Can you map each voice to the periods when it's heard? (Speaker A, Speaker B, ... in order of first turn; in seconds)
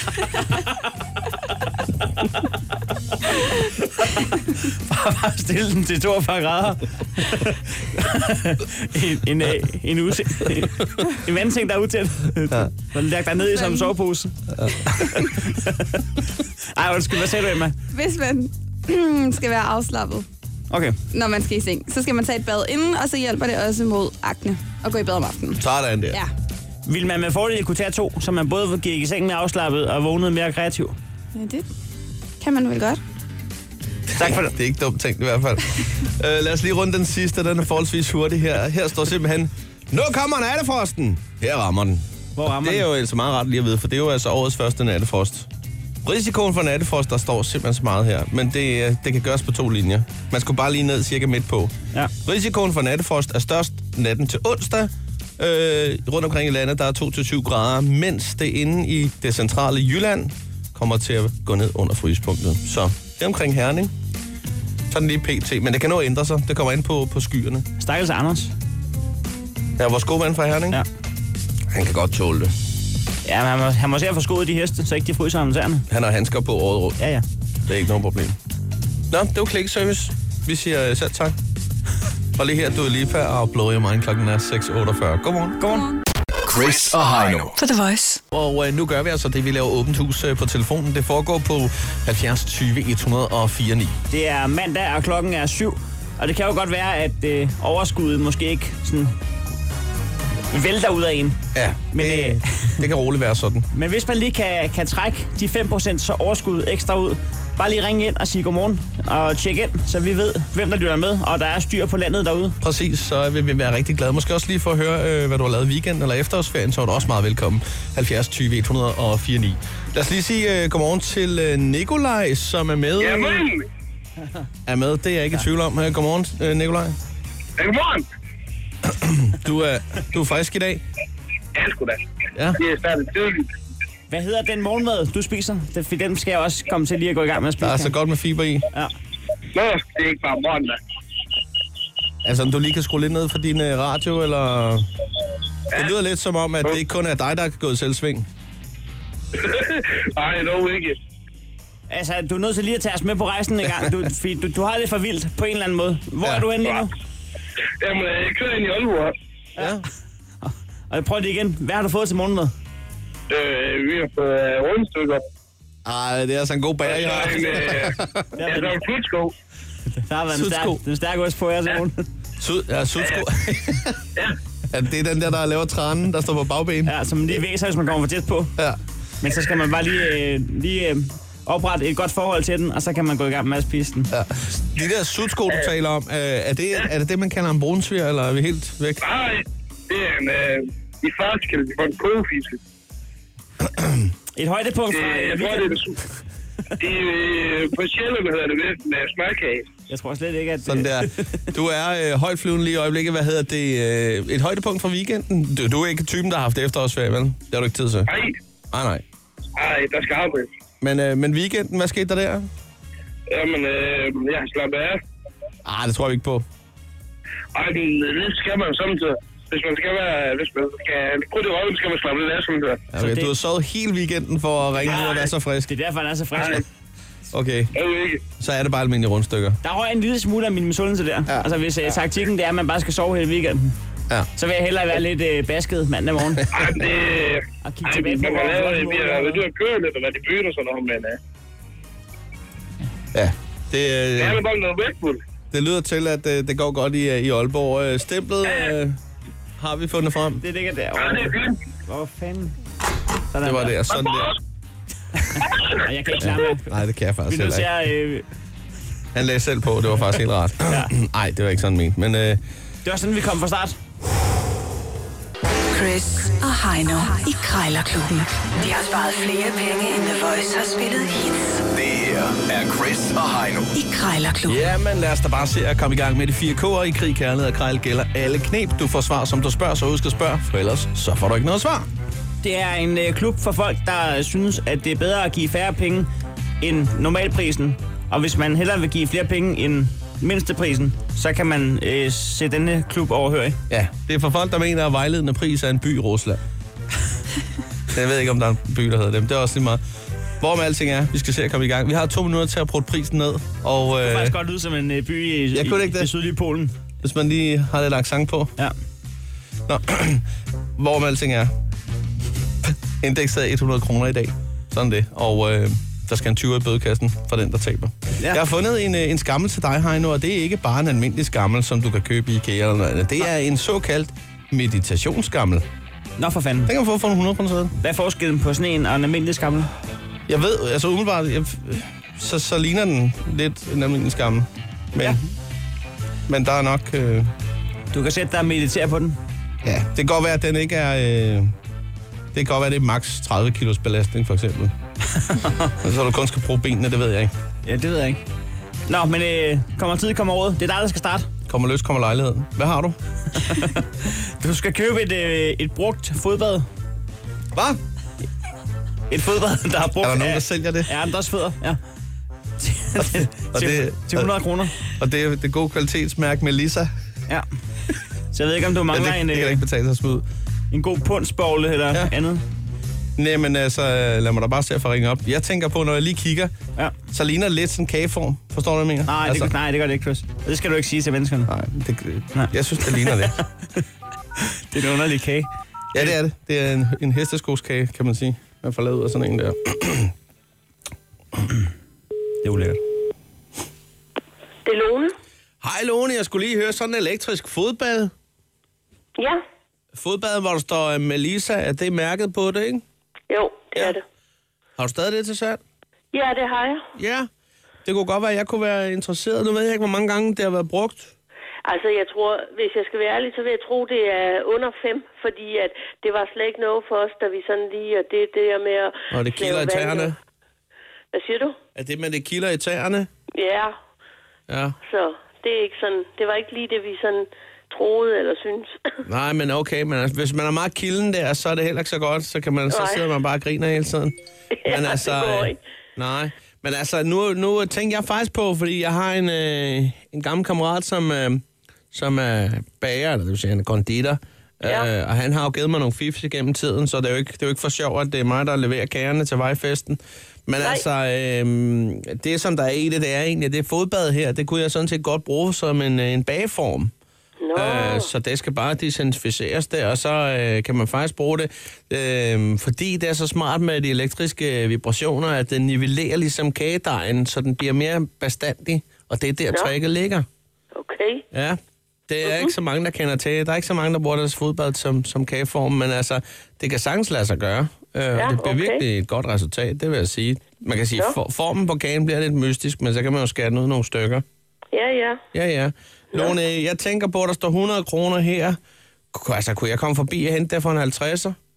Speaker A: 3.9-14.3, 15.0-17.8, 20.7-21.0, 26.9-30.9, 34.1-34.5, 42.4-42.9, 67.8-68.5, 73.2-75.8, 77.0-77.2, 85.6-85.9, 94.1-99.1, 100.5-101.4, 101.9-102.8, 103.7-112.6, 134.1-137.9, 151.9-156.9, 160.4-162.5, 168.4-168.8, 170.0-172.1, 176.9-178.6, 179.2-184.1, 194.4-195.8, 199.9-201.5, 223.0-223.3, 224.8-226.6, 229.6-233.8, 234.4-236.5, 237.6-239.4, 250.4-252.6, 253.3-253.8, 255.2-258.2, 260.7-260.9, 262.9-263.8, 282.4-286.1, 286.6-293.6, 304.0-306.7, 326.2-326.7, 327.8-329.7, 337.9-339.2, 345.2-345.7, 347.7-348.2, 348.9-351.3, 353.4-356.7, 359.1-361.8, 362.6-364.8, 368.3-369.6, 370.7-372.4, 379.1-381.5, 382.4-383.8, 384.4-386.1, 392.4-392.8
Speaker B: 13.5-13.9, 15.0-15.3, 17.9-20.3, 21.1-26.3, 31.4-31.6, 32.4-33.0, 85.7-86.0
Speaker C: 14.6-15.2, 25.6-26.2, 34.1-45.5, 46.0-63.9, 64.9-67.7, 69.8-70.8, 71.7-72.5, 75.9-77.0, 77.7-78.4, 79.1-81.4, 82.3-85.6, 88.3-94.0, 101.5-103.7, 112.6-123.5, 124.7-127.0, 128.8-130.8, 137.6-138.7, 142.2-144.9, 145.7-148.3, 156.2-156.5, 159.6-159.8, 165.8-168.3, 170.3-170.8, 172.4-174.0, 174.7-176.9, 184.1-189.0, 193.6-194.1, 200.7-208.1, 208.7-209.0, 210.8-212.5, 215.7-216.5, 222.9-225.7, 227.3-227.7, 228.4-229.6, 243.1-244.4, 245.5-249.0, 249.6-250.4, 253.4-254.3, 256.2-257.7, 259.1-262.4, 274.5-281.9, 293.7-296.4, 297.9-299.8, 300.4-304.4, 305.5-306.1, 307.0-308.5, 309.7-310.2, 310.8-311.5, 312.6-325.6, 326.7-327.8, 330.3-335.2, 336.3-337.3, 339.6-341.5, 342.3-344.7, 345.8-347.3, 351.5-353.0, 357.5-357.8, 360.0-360.9, 363.0-366.9, 368.9-370.2, 373.2-376.5, 377.1-379.5, 381.5-383.4, 385.9-390.1, 395.6-398.1, 399.9-402.8, 404.8-405.6, 407.0-407.3, 407.9-411.1, 419.1-420.2, 421.8-423.1, 424.5-424.8, 429.1-456.9, 457.6-470.3, 471.3-484.2, 485.3-488.6, 489.1-491.4
Speaker D: 86.5-87.6, 271.7-273.8
Speaker E: 87.6-88.2, 265.7-271.6, 273.8-274.6
Speaker F: 123.0-123.7, 127.6-128.1, 131.5-132.0, 132.5-133.5, 139.5-140.8, 149.3-151.0, 157.8-159.2, 163.3-165.2, 166.8-169.3, 189.0-192.6, 194.9-196.0, 196.8-199.7, 208.1-208.4, 209.6-210.5, 213.3-215.0, 217.5-222.8, 226.4-226.6, 227.8-228.2, 236.5-241.2, 244.2-245.2, 248.5-248.7, 251.0-251.6, 253.9-254.4, 255.5-255.8
Speaker G: 394.6-395.2, 399.2-399.4, 403.3-404.0, 406.1-406.9, 411.6-420.1, 421.1-421.6, 423.4-423.8, 424.9-428.8, 432.7-433.0, 434.6-435.6, 457.4-458.1, 470.7-471.3, 472.2-472.5, 478.2-478.8, 484.7-485.2